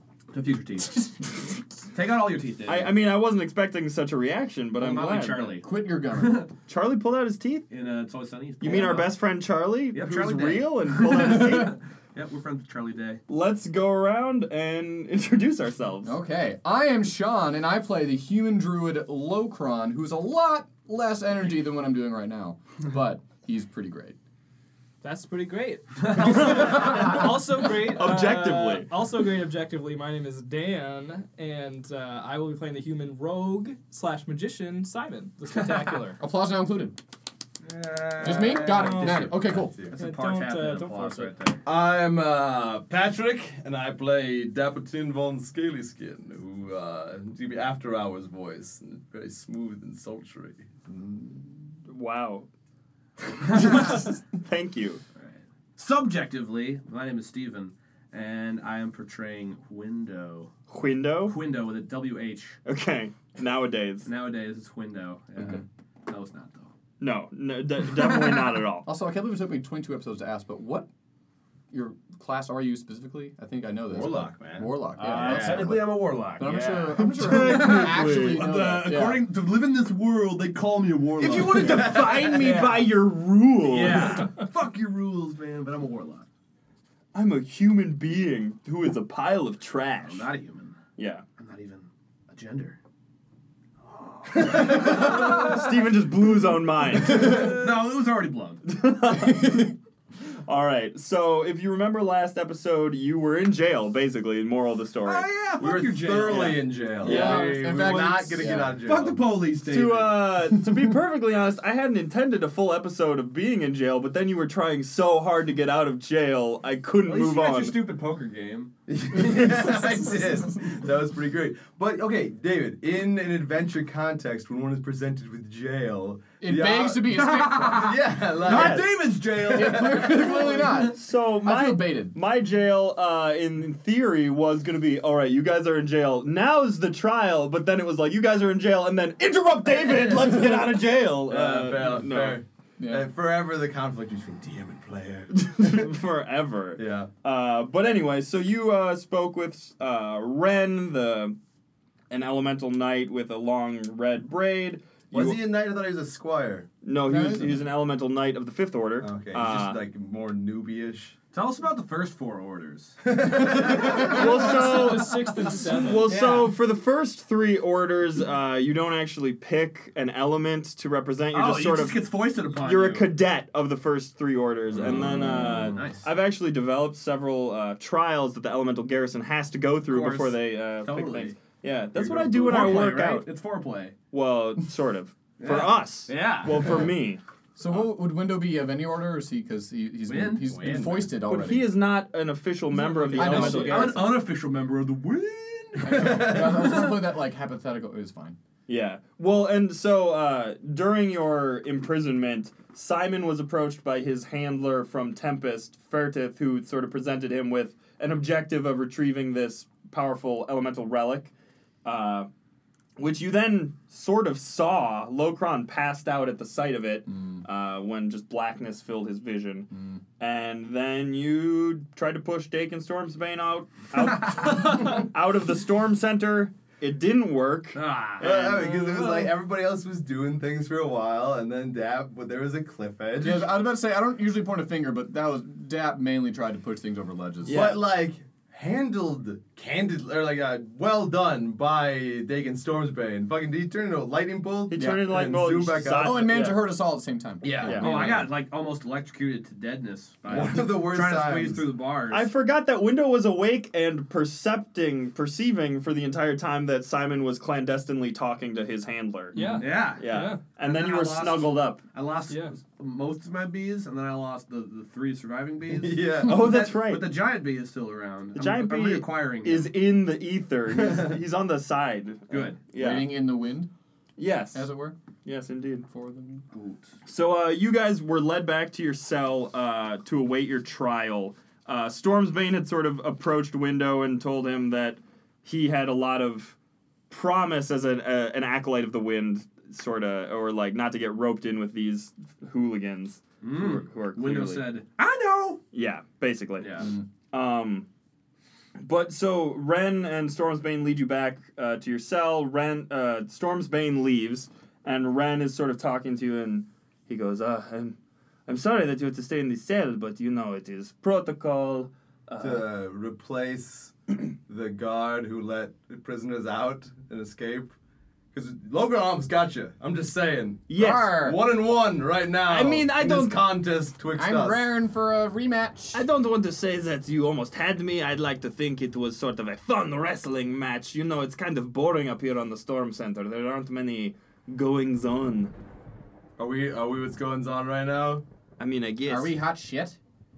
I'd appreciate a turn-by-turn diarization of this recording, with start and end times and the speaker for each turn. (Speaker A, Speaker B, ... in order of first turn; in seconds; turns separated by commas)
Speaker A: 0.3-1.3, Speaker A: 1.9-2.9, Speaker B: 2.7-5.6, Speaker A: 4.8-6.5, Speaker C: 5.0-6.5, Speaker B: 6.7-7.7, Speaker A: 7.7-9.2, Speaker B: 8.6-11.8, Speaker A: 9.9-13.2, Speaker B: 13.3-16.2, Speaker C: 16.0-24.2, Speaker D: 25.0-36.2, Speaker A: 26.2-27.0, Speaker B: 26.5-28.9, Speaker C: 36.2-37.0, Speaker A: 37.7-41.6, Speaker E: 37.9-40.0, Speaker C: 38.2-39.8, Speaker D: 39.9-41.4, Speaker E: 41.6-50.8, Speaker B: 51.9-52.5, Speaker A: 53.5-54.0, Speaker B: 53.5-55.0, Speaker A: 55.2-60.5, Speaker B: 60.7-61.4, Speaker A: 61.3-62.6, Speaker B: 62.7-64.1, Speaker A: 64.0-66.7, Speaker B: 67.0-68.9, Speaker C: 68.8-70.9, Speaker C: 71.7-79.3, Speaker E: 73.9-75.8, Speaker A: 74.2-82.9, Speaker B: 77.0-78.5, Speaker B: 81.2-84.3, Speaker E: 81.6-82.4, Speaker A: 83.6-86.3, Speaker B: 87.1-90.3, Speaker A: 90.0-90.8, Speaker B: 91.0-91.2, Speaker A: 91.4-92.8, Speaker A: 93.8-95.6, Speaker B: 94.3-97.6, Speaker A: 97.1-98.6, Speaker B: 98.7-99.7, Speaker B: 100.5-105.3, Speaker A: 105.0-107.4, Speaker E: 105.5-109.3, Speaker C: 107.0-108.8, Speaker B: 107.0-107.7, Speaker A: 108.7-110.3, Speaker B: 109.7-117.8, Speaker A: 117.0-118.7, Speaker E: 118.9-127.1, Speaker C: 126.4-128.0, Speaker A: 127.1-130.9, Speaker E: 127.6-130.7, Speaker B: 128.4-129.0, Speaker C: 129.4-132.2, Speaker B: 130.9-142.4, Speaker E: 141.3-145.9, Speaker C: 142.8-143.1, Speaker B: 145.4-151.4, Speaker E: 146.8-147.1, Speaker B: 152.1-155.4, Speaker E: 155.1-156.7, Speaker B: 156.8-159.8, Speaker C: 157.1-157.6, Speaker E: 159.0-161.2, Speaker A: 161.3-164.9, Speaker E: 163.1-164.3, Speaker D: 164.0-166.2, Speaker B: 164.0-183.3, Speaker A: 166.0-166.5, Speaker A: 171.3-173.1, Speaker A: 174.7-176.1, Speaker A: 179.9-181.4, Speaker E: 182.0-182.9, Speaker A: 182.1-183.9, Speaker B: 184.1-187.2, Speaker A: 185.4-186.9, Speaker C: 187.6-191.7, Speaker A: 190.1-191.2, Speaker B: 191.3-194.1, Speaker A: 193.1-196.4, Speaker C: 193.1-194.2, Speaker C: 195.8-198.4, Speaker E: 195.9-196.9, Speaker B: 198.7-211.3, Speaker B: 211.8-212.3, Speaker B: 213.0-228.7, Speaker A: 227.7-228.7, Speaker E: 228.2-233.6, Speaker C: 233.2-237.8, Speaker B: 237.4-237.8, Speaker E: 237.5-246.5, Speaker B: 244.7-246.7, Speaker C: 244.8-245.0, Speaker C: 245.9-248.2, Speaker A: 247.4-252.3, Speaker B: 247.6-248.3, Speaker E: 250.3-251.7, Speaker B: 252.1-259.4, Speaker D: 259.3-260.4, Speaker A: 259.4-269.7, Speaker B: 259.9-261.8, Speaker D: 262.3-262.5, Speaker E: 265.7-266.6, Speaker B: 266.2-267.1, Speaker B: 268.4-273.2, Speaker E: 270.7-271.1, Speaker A: 272.3-272.6, Speaker C: 272.8-273.7, Speaker B: 274.2-274.7, Speaker C: 274.5-275.0, Speaker B: 275.2-275.9, Speaker C: 275.9-276.5, Speaker A: 276.5-276.9, Speaker B: 277.1-286.6, Speaker B: 287.1-294.8, Speaker A: 293.4-295.6, Speaker B: 295.7-297.9, Speaker A: 296.6-296.9, Speaker B: 298.8-308.0, Speaker B: 308.5-312.7, Speaker E: 312.4-317.8, Speaker E: 318.3-324.7, Speaker B: 320.7-321.2, Speaker C: 320.8-321.4, Speaker B: 322.5-323.4, Speaker C: 324.1-326.1, Speaker B: 325.9-335.5, Speaker E: 336.4-338.2, Speaker B: 338.6-339.4, Speaker C: 339.1-340.0